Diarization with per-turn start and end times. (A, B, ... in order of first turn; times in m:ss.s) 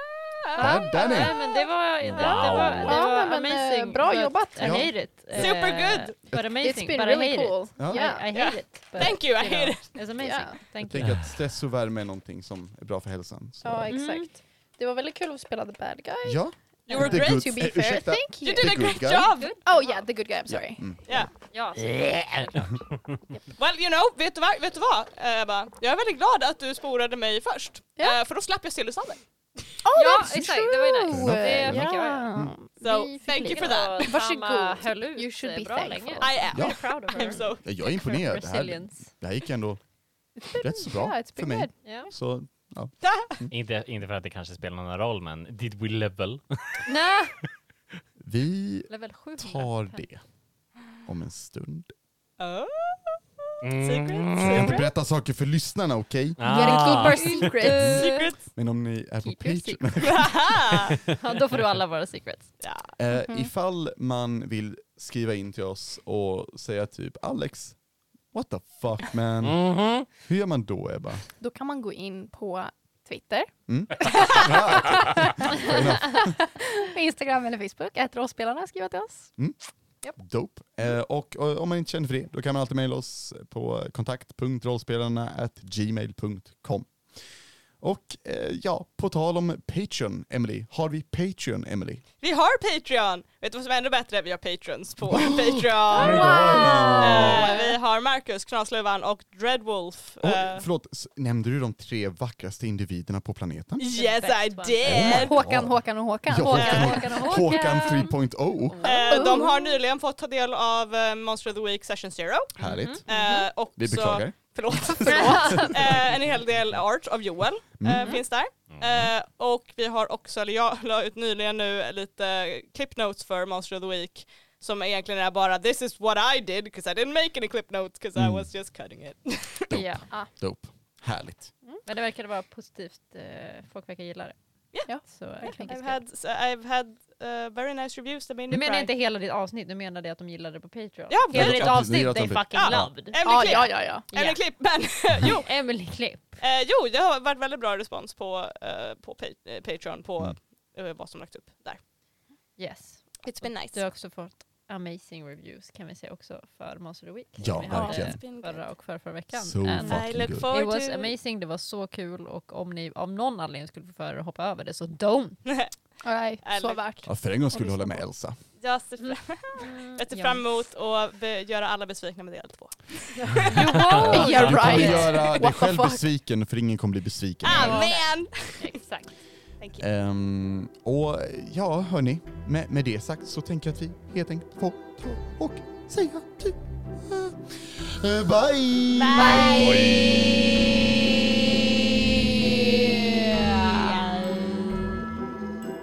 0:00.4-0:01.6 A
0:00.4-0:11.3 B
0:00.6-0:01.4 C
0:02.0-0:03.1 D
0:02.2-0:04.9 A
0:04.6-0:04.9 C
0:05.3-0:06.2 E
0:06.3-0:08.3 A
0:07.8-0:08.0 C
0:08.3-0:10.0 E
0:10.2-0:10.6 A
0:10.8-0:13.9 C
0:13.6-0:19.0 A
0:13.9-0:14.3 B
0:16.2-0:19.3 C
0:16.9-0:17.6 E
0:18.4-0:19.6 E
0:19.3-0:20.0 B
0:19.6-0:20.8 A
0:20.5-0:21.3 C
0:21.5-0:22.6 B
0:21.8-0:23.2 D
0:23.6-0:29.7 E
0:29.8-0:36.5 A
0:30.0-0:32.3 B
0:31.1-0:32.5 C
0:32.8-0:34.2 E
0:33.3-0:39.1 B
0:36.2-0:37.6 E
0:36.5-0:36.8 C
0:37.6-0:39.8 C
0:40.4-0:41.7 A
0:40.5-0:43.5 C
0:41.8-0:42.1 B
0:43.0-0:43.4 E
0:43.5-0:46.9 D
0:46.9-0:47.4 B
0:48.2-0:50.2 C
0:48.9-0:50.0 B
0:51.0-0:51.9 C
0:52.4-0:54.9 E
0:53.6-0:54.8 D
0:54.5-0:57.1 C
0:56.4-0:57.8 D
0:56.5-0:58.3 A
0:57.2-0:58.4 E
0:57.7-1:00.5 C
0:59.2-0:59.8 B
1:00.0-1:01.0 E
1:01.1-1:02.5 B
1:02.6-1:02.9 E
1:03.0-1:07.8 C
1:03.1-1:03.5 A
1:08.3-1:11.2 C
1:09.4-1:10.1 D
1:11.4-1:19.3 A
1:13.7-1:16.4 C
1:20.2-1:26.9 C
1:27.8-1:32.0 C
1:32.2-1:40.6 E
1:35.1-1:37.5 C
1:35.9-1:37.8 A
1:40.2-1:43.8 C
1:43.8-1:45.4 E
1:43.9-1:45.1 B
1:44.8-1:48.9 C
1:45.0-1:47.7 A
1:46.4-1:49.3 B
1:46.6-1:46.9 E
1:48.8-2:09.7 E
1:48.9-1:49.8 A
1:52.6-1:53.1 C
1:52.6-1:53.4 B
1:53.8-1:54.9 C
1:54.9-1:55.9 A
1:55.2-1:55.7 B
1:57.8-1:58.1 C
1:58.7-1:59.1 D
2:08.2-2:08.5 C
2:09.7-2:11.5 C
2:09.7-2:10.0 B
2:11.9-2:14.4 B
2:14.9-2:15.6 A
2:14.9-2:16.0 B
2:15.4-2:18.9 E
2:18.5-2:24.4 B
2:21.1-2:21.9 E
2:21.3-2:22.9 C
2:22.5-2:25.5 E
2:23.2-2:24.1 A
2:25.2-2:26.4 B
2:26.4-2:31.8 E
2:32.6-2:45.4 B
2:33.2-2:33.9 E
2:37.4-2:38.2 C
2:37.7-2:38.6 E
2:37.7-2:38.0 A
2:39.3-2:40.5 C
2:39.8-2:41.1 E
2:45.4-2:45.7 E
2:46.0-2:48.0 A
2:46.4-2:46.8 E
2:47.1-2:48.4 C
2:48.6-2:54.7 E
2:49.0-2:50.5 B
2:53.5-2:56.0 A
2:53.5-2:55.2 B
2:54.0-2:57.9 C
2:54.2-2:54.5 D
2:57.4-2:58.8 E
2:57.5-2:59.1 B
2:59.6-2:59.8 E
2:59.8-3:10.5 C
3:08.9-3:09.9 E
3:09.2-3:09.9 A
3:09.3-3:10.5 D
3:13.0-3:14.2 E
3:13.8-3:15.1 D